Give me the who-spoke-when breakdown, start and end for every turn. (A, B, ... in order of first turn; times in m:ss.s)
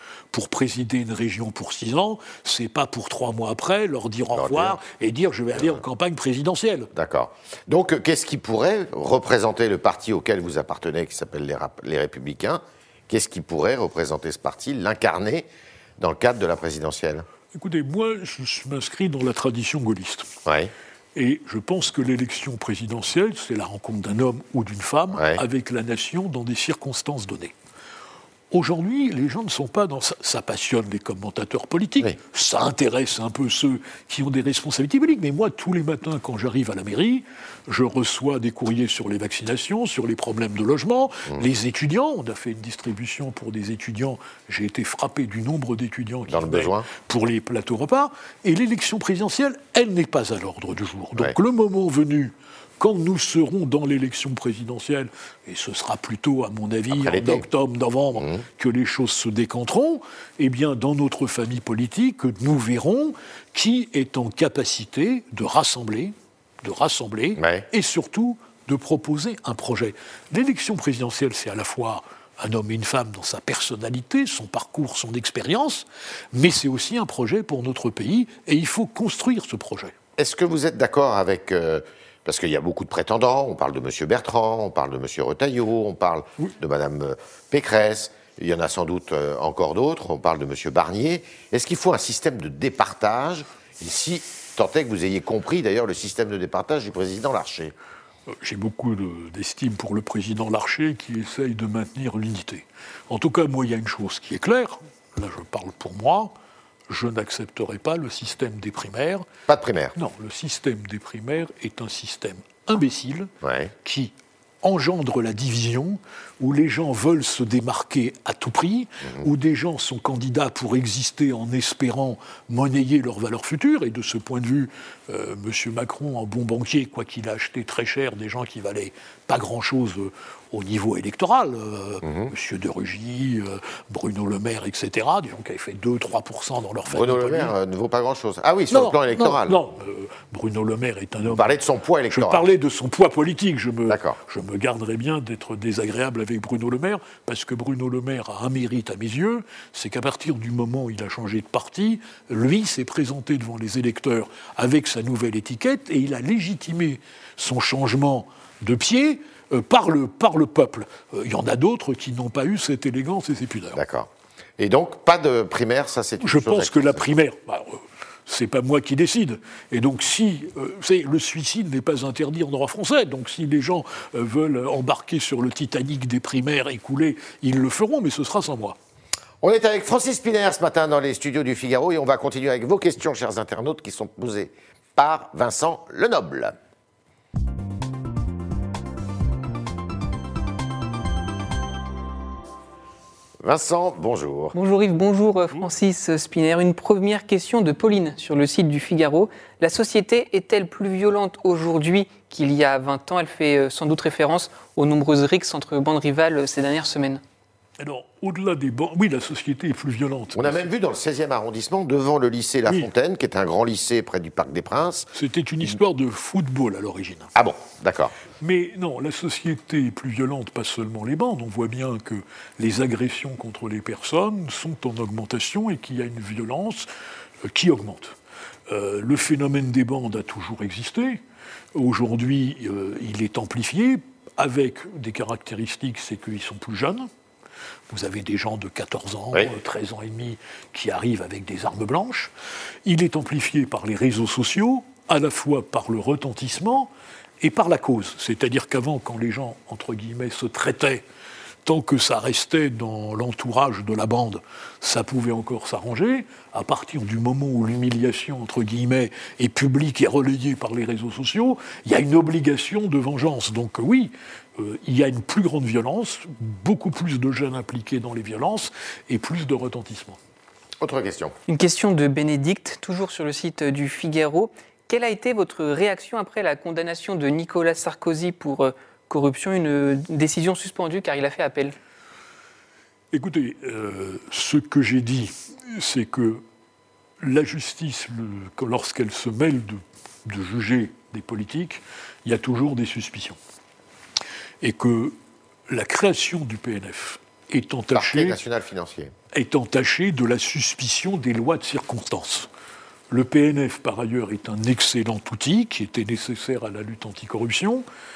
0:00.3-0:06.9 A
0:04.3-0:04.8 B
0:05.6-0:05.8 B
0:06.9-0:15.4 B
0:16.0-0:17.2 B
0:17.5-0:20.3 A
0:20.4-0:20.7 B
0:21.1-0:27.5 A
0:25.1-0:25.4 B
0:28.5-1:19.9 A
0:46.3-0:46.9 B
0:56.9-0:57.4 B
0:58.2-0:58.4 B
1:07.4-1:07.6 B
1:20.2-1:37.7 B
1:38.3-1:46.3 A
1:46.9-1:49.2 A
1:49.5-1:50.0 B
1:49.9-1:53.3 A
1:53.4-1:53.7 B
1:53.8-2:17.5 A
2:16.9-2:19.6 B
2:18.7-2:21.5 A
2:21.2-2:22.4 B
2:22.1-2:43.8 A
2:23.9-2:24.2 B
2:43.7-2:47.0 B
2:46.2-2:58.8 A
2:59.4-3:06.6 B
3:13.4-3:14.6 B
3:14.5-3:27.2 C
3:27.8-3:30.7 A
3:30.3-3:35.1 B
3:35.1-3:37.3 A
3:37.3-3:38.2 B
3:38.4-3:46.9 A
3:47.5-3:48.2 A
3:48.7-3:51.2 A
3:51.7-3:57.1 A
3:57.9-4:02.3 A
4:02.8-4:11.0 A
4:11.6-4:30.2 A
4:30.8-4:31.3 B
4:31.5-4:41.8 C
4:43.1-4:46.4 A
4:47.2-4:53.4 A
4:54.6-4:55.1 A
4:55.7-4:58.4 A
4:57.9-4:59.1 B
4:59.3-5:02.5 A
5:03.1-5:07.8 A